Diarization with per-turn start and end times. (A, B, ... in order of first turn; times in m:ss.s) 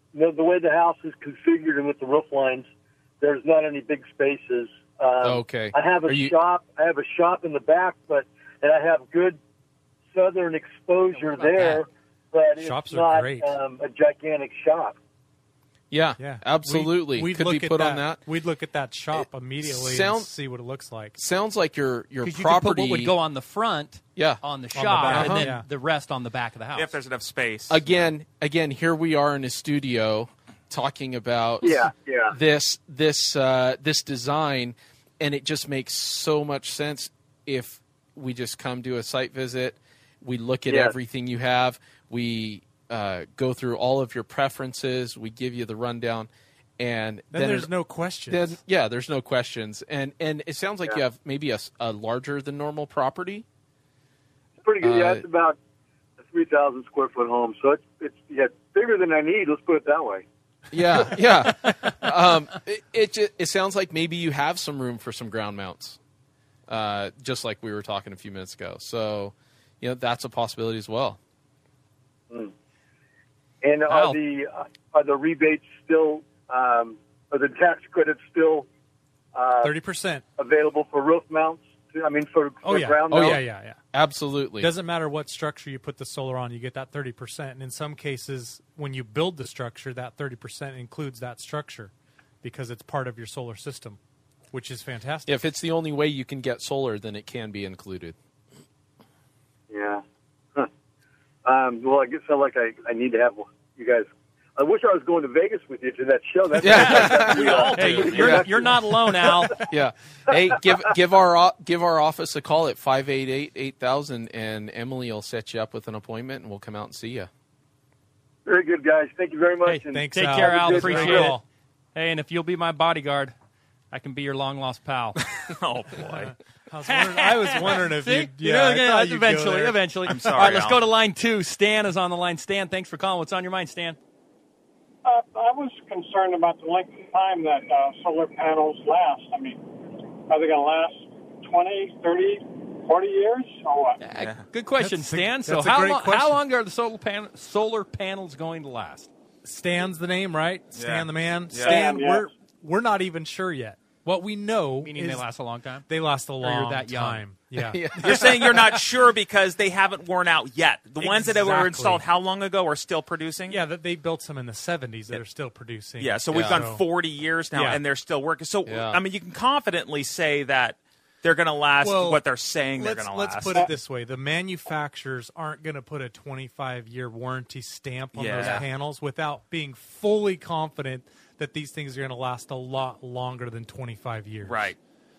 0:00.1-0:02.7 A
0:03.2-0:09.4 A
0:05.2-0:06.4 B
0:10.1-0:15.0 A
0:11.1-0:11.8 C
0:12.6-0:13.6 D
0:15.9-0:18.2 B
0:16.2-0:21.2 D
0:19.1-0:20.3 B
0:21.2-0:23.2 B
0:22.2-0:26.9 C
0:24.2-0:24.4 B
0:24.7-0:25.6 D
0:25.0-0:25.5 B
0:26.7-0:28.1 E
0:27.7-0:47.7 B
0:31.6-0:32.4 A
0:40.7-0:41.0 A
0:47.3-0:48.6 D
0:48.3-0:53.4 B
0:54.6-0:55.6 A
0:54.8-0:55.2 B
0:56.2-1:00.2 A
1:00.7-1:06.0 B
1:01.6-1:01.9 C
1:06.7-1:11.2 B
1:13.6-1:18.7 A
1:13.9-1:14.2 C
1:19.3-1:19.7 A
1:19.6-1:20.2 D
1:20.4-1:23.4 A
1:22.6-1:23.8 D
1:23.1-1:24.7 B
1:24.6-1:31.9 D
1:32.4-1:34.0 D
1:34.5-1:35.3 D
1:35.3-1:38.2 B
1:39.7-1:40.0 A
1:41.4-1:49.5 A
1:46.6-1:49.7 C
1:46.6-1:48.4 B
1:47.5-1:48.3 E
1:49.6-1:57.3 B
1:58.4-2:01.3 A
1:59.6-2:01.4 C
1:59.9-2:01.4 D
2:01.9-2:03.3 C
2:03.9-2:05.2 C
2:05.2-2:06.3 E
2:06.0-2:10.1 D
2:06.8-2:14.0 C
2:10.0-2:10.9 E
2:15.0-2:19.6 F
2:20.3-2:24.0 F
2:24.0-2:29.1 C
2:24.2-2:24.4 E
2:24.8-2:26.4 D
2:29.4-2:35.3 D
2:30.7-2:31.9 E
2:31.7-2:32.2 F
2:34.8-2:35.9 C
2:35.9-2:38.2 D
2:36.4-2:37.2 C
2:37.6-2:38.8 B
2:38.0-2:43.6 E
2:41.0-2:42.0 D
2:43.5-2:46.8 D
2:46.0-2:53.6 E
2:46.3-2:46.6 B
2:47.5-2:47.8 D
2:48.6-2:49.0 B
2:51.8-3:04.7 D
2:58.1-2:58.6 E
2:58.4-2:58.6 C
3:04.4-3:04.8 E